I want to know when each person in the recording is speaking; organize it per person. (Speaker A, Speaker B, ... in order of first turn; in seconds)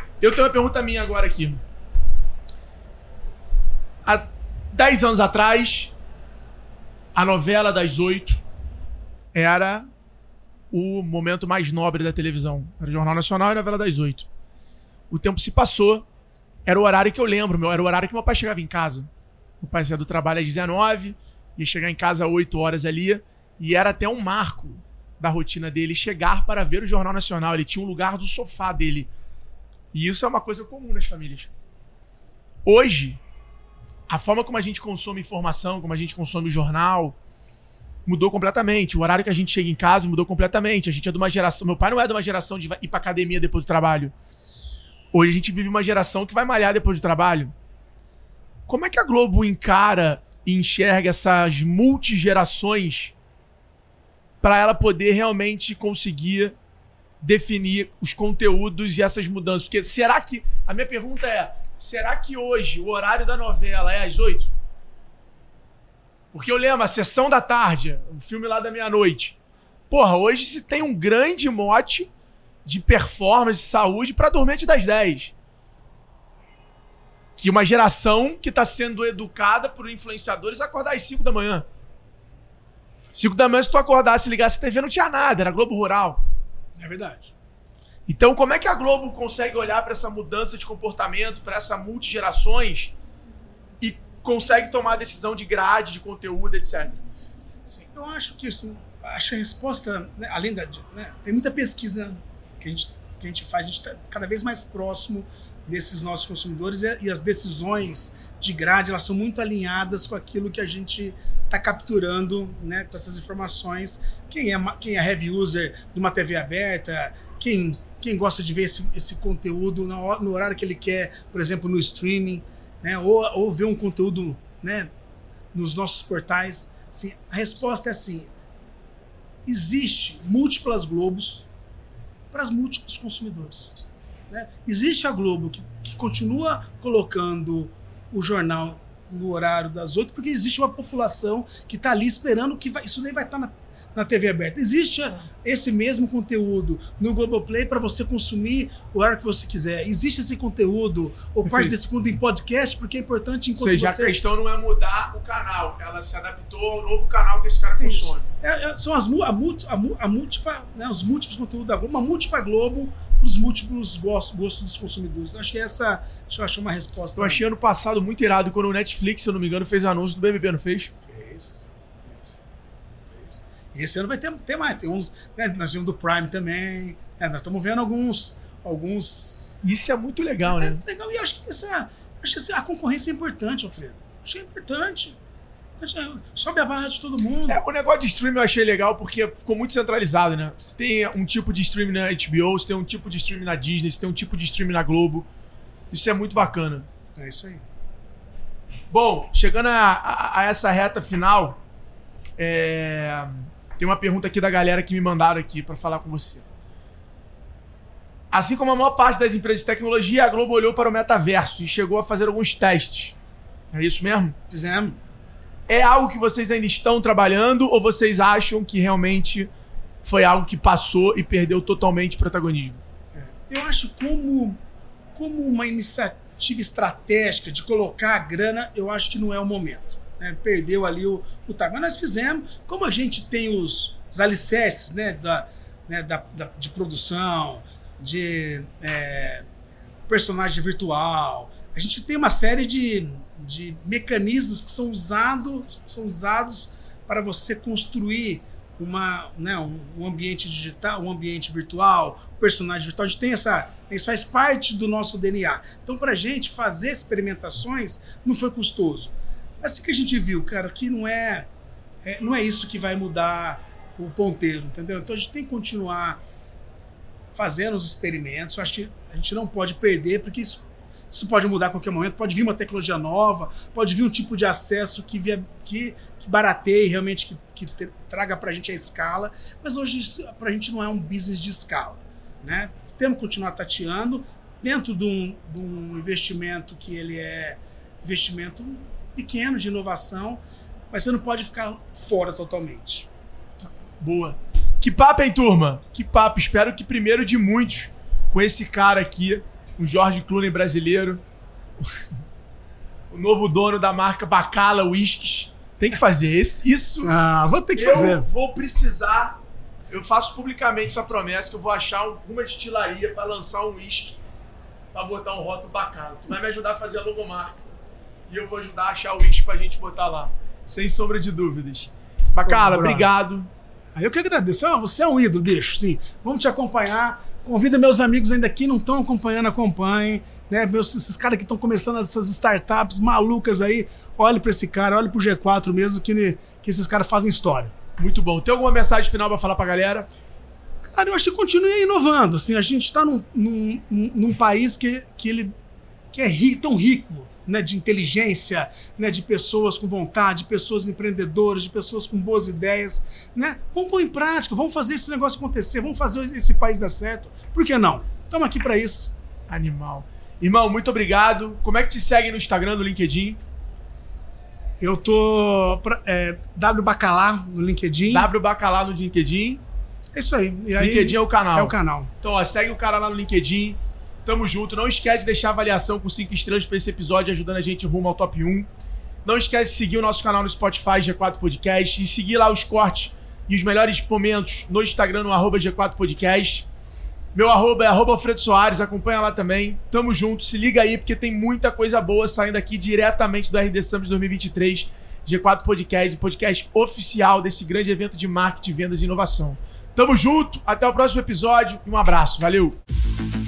Speaker A: 0.2-1.6, 4.0-5.9, 7.1-8.4, 9.3-9.9, 10.7-14.3, 15.1-16.1, 16.6-19.1, 19.6-29.1, 29.9-31.5, 32.6-33.2, 34.1-37.2, 38.0-44.1, 45.1-47.5, 48.7-53.1, 54.4-56.5, 57.2-64.5, 66.3-69.3, 69.9-72.1, 72.6-75.3, 77.4-81.6, 83.1-86.2, 88.1-92.9, 93.8-97.0, 151.4-151.7, 153.6-158.2, 167.2-170.9, 179.6-180.8, 187.4-195.2, 195.9-196.9, 198.9-201.6, 202.4-206.4, 208.3-213.1, 213.7-214.3, 215.7-219.5, 220.0-222.8, 294.0-301.2, 303.1-307.1, 307.7-309.4, 309.9-314.2, 314.9-317.7, 318.3-323.5, 338.0-340.1, 359.5-363.4, 368.1-369.6, 370.8-378.7, 379.2-386.6, 387.3-402.8
Speaker B: 86.8-87.3, 97.7-124.9, 125.5-128.3, 129.4-131.5, 132.3-154.2, 157.8-167.4, 171.1-172.4, 173.1-179.6, 180.4-185.2, 185.8-187.6, 197.2-197.6, 214.5-215.0, 223.1-224.6, 225.1-239.4, 240.1-261.5, 262.0-266.2, 267.3-293.1, 307.0-308.2, 322.5-323.1, 323.9-337.7, 340.8-345.5, 346.1-359.1, 364.8-368.3, 370.1-372.1